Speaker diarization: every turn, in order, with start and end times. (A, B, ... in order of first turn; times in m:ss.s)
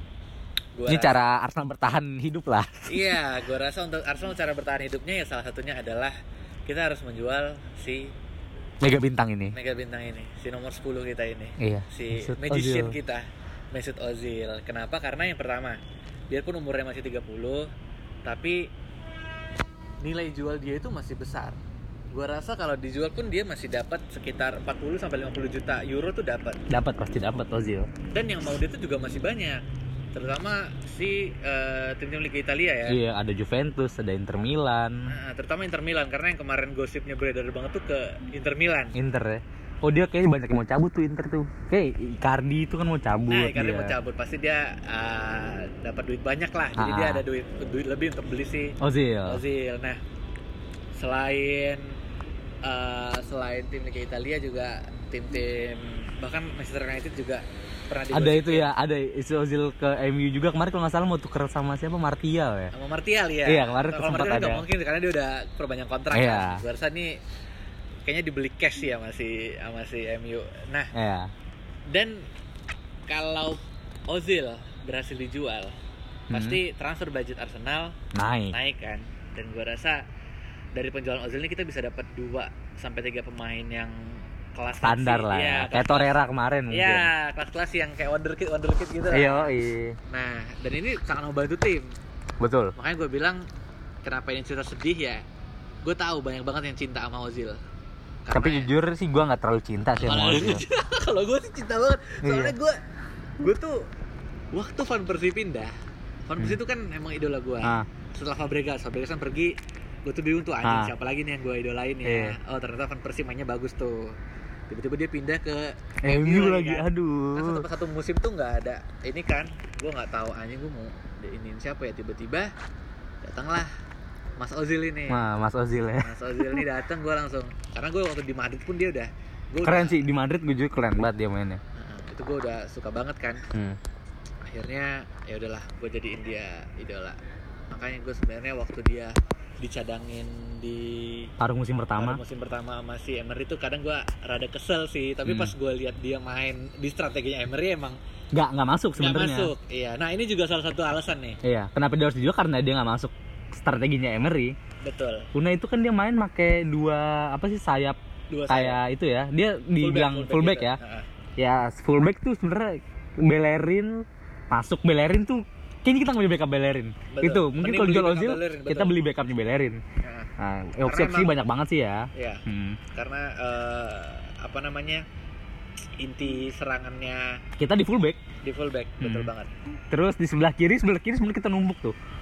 0:00.8-0:01.2 A
0:00.9-0:03.2 B
0:02.9-0:08.1 A
0:08.8-0:09.6 B
0:09.5-0:15.8 A
0:11.6-0:13.0 B
0:16.3-0:17.7 A
0:18.2-0:18.7 A
0:20.0-0:21.6 A
0:22.1-0:26.6 A
0:26.7-0:27.9 B
0:28.1-0:29.6 A
0:30.1-0:33.0 A
0:32.9-0:35.1 B
0:35.1-0:39.0 A
0:39.0-0:44.0 B
0:43.3-0:50.0 A
0:46.8-0:47.2 B
0:48.8-0:49.4 B
0:50.9-0:52.0 A
0:52.6-0:58.7 A
0:58.1-1:02.7 B
1:02.7-1:07.2 A
1:03.5-1:04.6 B
1:06.1-1:06.6 B
1:08.0-1:10.9 A
1:10.9-1:11.3 B
1:11.9-1:12.3 A
1:13.1-1:15.7 A
1:16.3-1:16.6 B
1:16.3-1:18.0 A
1:18.1-1:18.6 B
1:18.5-1:20.0 A
1:20.7-1:29.6 A
1:24.8-1:27.1 B
1:29.1-1:30.0 B
1:30.1-1:31.9 A
1:32.4-1:32.8 B
1:32.8-1:33.4 A
1:34.0-1:35.2 A
1:35.8-1:37.6 A
1:38.3-1:38.7 A
1:38.3-1:40.6 B
1:40.0-1:42.8 A
1:42.2-1:42.6 B
1:43.4-1:43.8 A
1:44.5-1:45.7 A
1:46.3-1:49.5 A
1:50.1-1:54.2 A
1:50.6-1:50.9 B
1:52.0-1:52.4 B
1:54.7-2:02.5 A
1:56.0-1:57.7 B
2:03.2-2:03.7 A
2:04.4-2:05.2 A
2:05.1-2:06.6 B
2:06.0-2:10.0 A
2:09.6-2:11.6 B
2:11.8-2:13.4 A
2:13.5-2:13.8 B
2:14.4-2:17.2 A
2:17.7-2:21.3 A
2:21.4-2:22.2 B
2:22.0-2:28.0 A
2:25.2-2:25.5 B
2:28.3-2:29.5 B
2:29.0-2:31.4 A
2:31.4-2:34.6 B
2:34.8-2:35.3 A
2:35.3-2:40.8 B
2:38.3-2:38.8 A
2:39.8-2:41.1 A
2:41.4-2:49.8 B
2:47.1-2:49.0 A
2:50.0-2:50.3 A
2:50.4-2:52.8 B
2:50.8-2:51.4 A
2:52.2-2:55.0 A
2:56.0-2:57.4 A
2:57.6-2:58.2 B
2:58.4-2:59.5 A
2:59.0-2:59.3 B
2:59.9-3:02.0 B